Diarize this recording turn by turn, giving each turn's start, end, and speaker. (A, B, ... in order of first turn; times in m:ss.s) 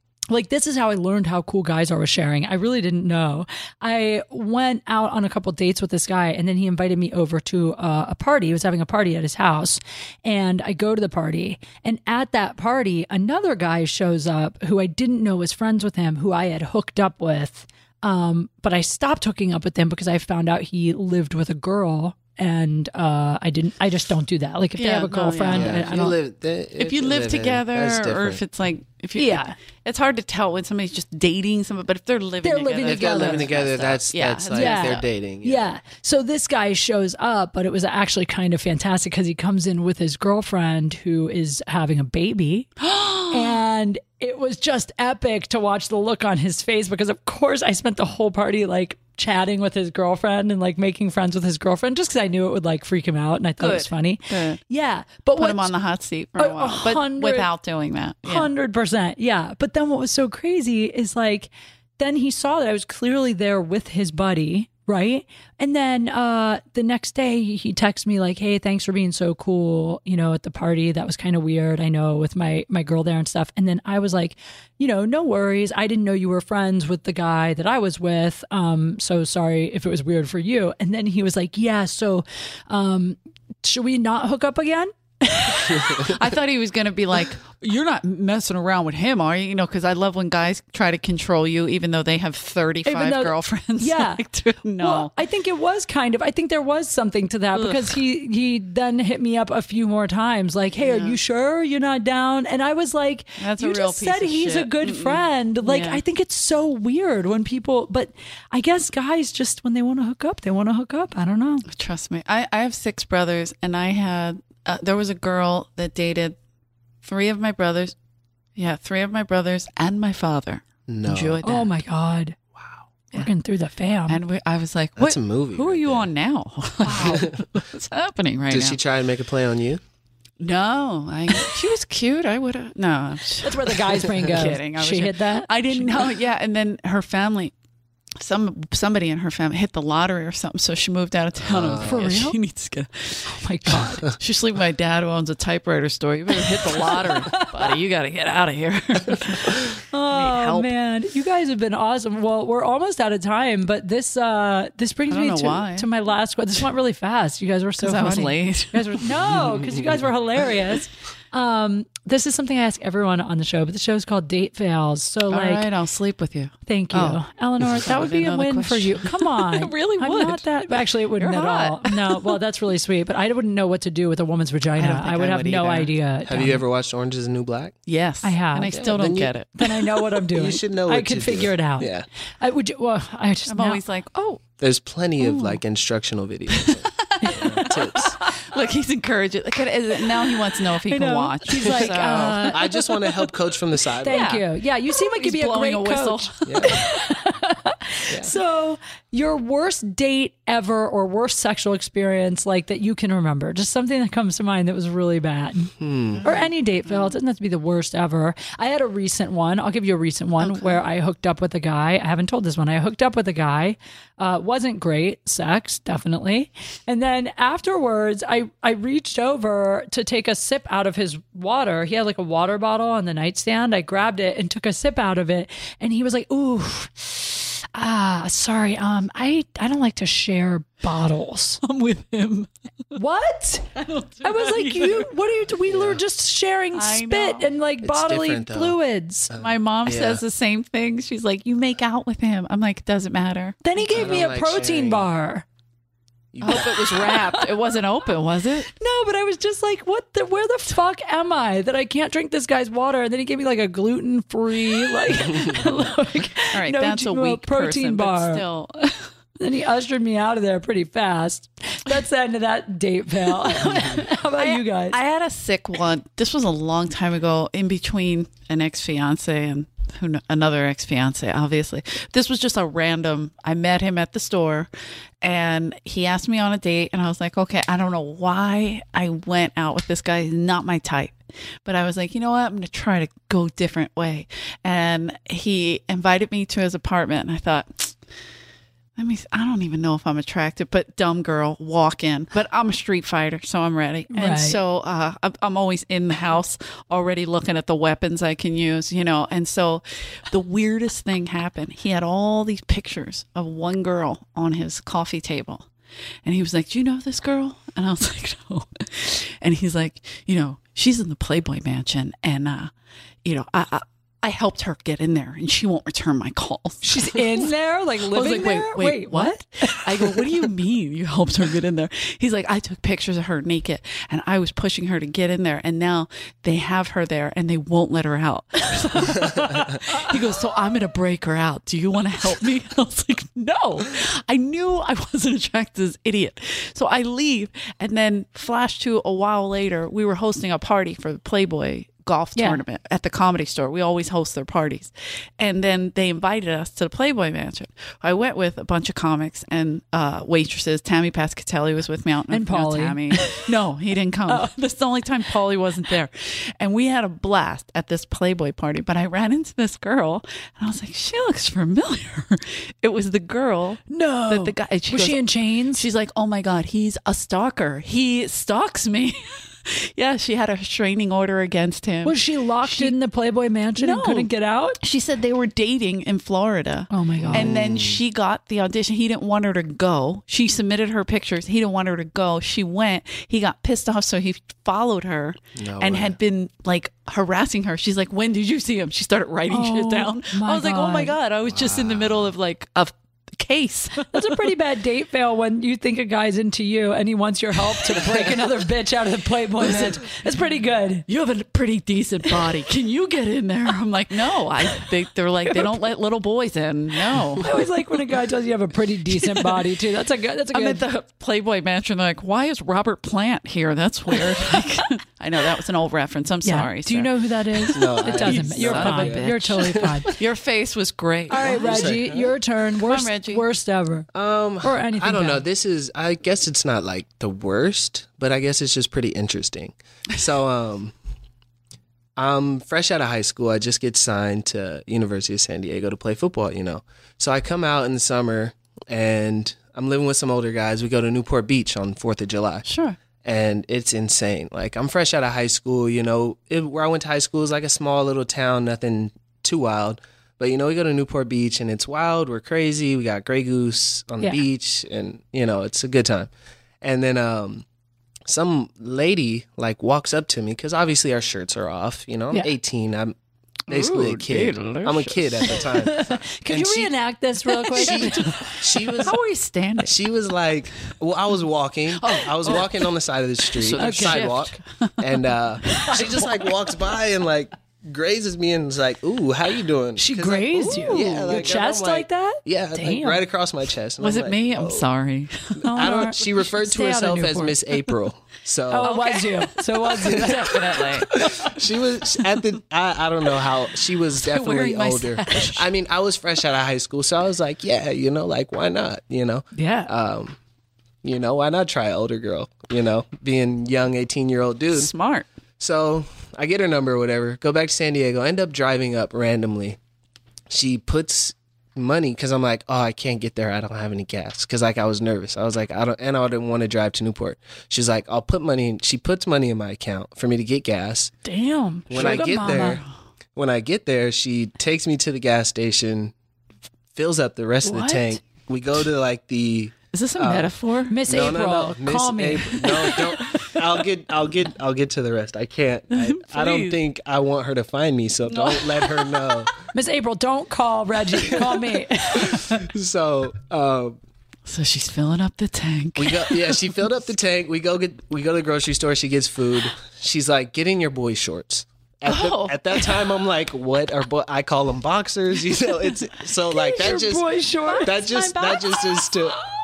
0:00.3-0:26.2 A
0:24.8-0:26.1 B
0:25.5-0:28.4 C
0:26.8-0:35.0 B
0:29.2-0:29.6 A
0:32.4-0:33.5 A
0:32.8-0:35.6 C
0:34.5-0:42.8 A
0:42.8-0:43.6 B
0:43.3-0:55.7 A
0:53.6-0:54.6 B
0:55.4-0:58.5 B
0:56.4-0:57.5 A
0:58.2-1:25.8 A
1:25.4-1:35.1 B
1:32.8-1:34.2 A
1:34.8-1:51.6 A
1:37.5-1:38.0 B
1:40.8-1:41.2 B
1:43.4-1:46.0 B
1:51.7-1:56.4 B
1:57.0-1:57.9 B
1:58.6-2:01.8 B
2:00.9-2:01.4 C
2:01.4-2:02.4 A
2:03.1-2:04.2 A
2:04.1-2:08.8 B
2:05.0-2:06.1 C
2:06.8-2:07.3 A
2:07.0-2:07.5 C
2:08.5-2:09.8 C
2:10.4-2:17.5 B
2:13.4-2:16.1 A
2:18.2-2:30.7 B
2:21.4-2:22.0 C
2:21.8-2:22.4 A
2:23.3-2:24.1 A
2:26.5-2:27.7 A
2:29.5-2:45.7 A
2:35.1-2:35.9 B
2:37.8-2:39.1 B
2:39.4-2:39.9 C
2:45.3-2:52.4 B
2:46.6-2:56.6 A
2:54.8-2:55.9 B
2:56.2-2:57.7 C
2:57.9-3:00.1 B
2:58.2-2:58.8 A
2:58.7-2:59.3 C
2:59.6-3:03.8 A
3:00.3-3:02.0 C
3:03.5-3:04.4 B
3:04.6-3:08.2 C
3:05.2-3:05.6 B
3:06.5-3:12.9 B
3:07.2-3:08.3 A
3:10.9-3:12.8 A
3:11.8-3:14.3 C
3:14.0-3:51.6 A
3:14.0-3:17.0 B
3:16.4-3:16.8 C
3:25.8-3:26.2 C
3:26.2-3:27.1 B
3:30.4-3:30.8 B
3:51.6-3:52.5 B
3:52.9-3:59.3 A
3:53.8-3:55.1 B
3:55.7-3:56.0 C
3:56.7-3:57.5 B
3:57.8-3:58.8 C
3:59.3-4:00.2 C
3:59.3-4:04.1 B
4:03.6-4:05.4 A
4:03.9-4:05.1 C
4:06.3-4:06.7 C
4:06.4-4:08.7 B
4:06.4-4:07.5 A
4:08.8-4:18.4 A
4:16.5-4:19.1 B
4:19.4-4:25.0 A
4:23.5-4:34.7 B
4:35.2-4:48.0 B
4:49.0-5:05.7 B
4:54.1-4:54.6 A
5:06.2-5:12.7 B
5:13.2-5:17.5 B
5:16.8-5:20.2 A
5:18.1-6:12.9 B
5:29.0-5:30.0 A
5:52.3-5:53.4 A
6:03.9-6:05.8 A
6:12.0-6:14.8 A
6:13.8-6:14.3 B
6:14.8-6:34.5 B
6:16.9-6:17.5 A
6:17.3-6:18.0 C
6:25.5-6:26.2 C
6:29.5-6:31.1 A
6:31.4-6:32.3 C
6:34.1-6:41.0 A
6:39.6-6:40.1 B
6:41.1-6:47.6 B
6:45.5-6:45.7 A
6:47.4-6:50.8 A
6:49.1-6:49.6 B
6:50.5-7:02.0 B
6:56.4-7:00.1 A
6:57.7-7:00.2 C
7:01.3-7:04.1 A
7:01.5-7:02.3 C
7:02.8-7:03.4 B
7:04.1-7:10.9 C
7:04.6-7:05.4 A
7:12.2-7:22.7 C
7:22.6-7:23.0 B
7:23.2-7:36.3 C
7:36.8-7:37.6 C
7:38.3-7:43.1 C
7:43.7-7:45.7 B
7:43.7-7:46.9 C
7:45.6-7:48.5 A
7:47.7-7:49.1 C
7:47.7-7:50.0 B
7:49.8-8:04.9 C
7:52.0-7:52.9 B
7:53.5-7:55.0 B
7:53.8-7:54.2 A
7:55.7-7:56.5 B
8:00.0-8:03.2 A
8:00.7-8:01.5 B
8:04.0-8:05.6 B
8:05.6-8:07.5 A
8:05.6-8:08.9 C
8:06.8-8:07.5 B
8:08.7-8:10.6 A
8:08.8-8:11.6 B
8:10.1-8:20.4 C
8:14.1-8:15.7 B
8:19.5-8:19.9 A
8:21.0-8:24.9 C
8:24.7-8:25.3 B
8:25.6-8:29.8 C
8:30.5-8:41.1 C
8:41.2-8:42.8 A
8:41.9-8:42.8 C
8:42.0-8:42.8 B
8:43.4-8:46.1 C
8:46.9-8:50.5 C
8:47.6-8:48.2 A
8:49.9-8:51.0 B
8:50.9-8:53.4 A
8:51.1-8:59.5 C
8:52.7-8:53.5 B
8:55.9-8:56.8 B
8:58.3-8:59.5 B
8:59.7-9:02.6 A
9:01.2-9:01.5 C
9:02.1-9:04.0 C
9:04.4-9:06.7 B
9:06.0-9:17.3 C
9:12.0-9:13.0 B
9:16.5-9:19.1 A
9:17.8-9:19.4 C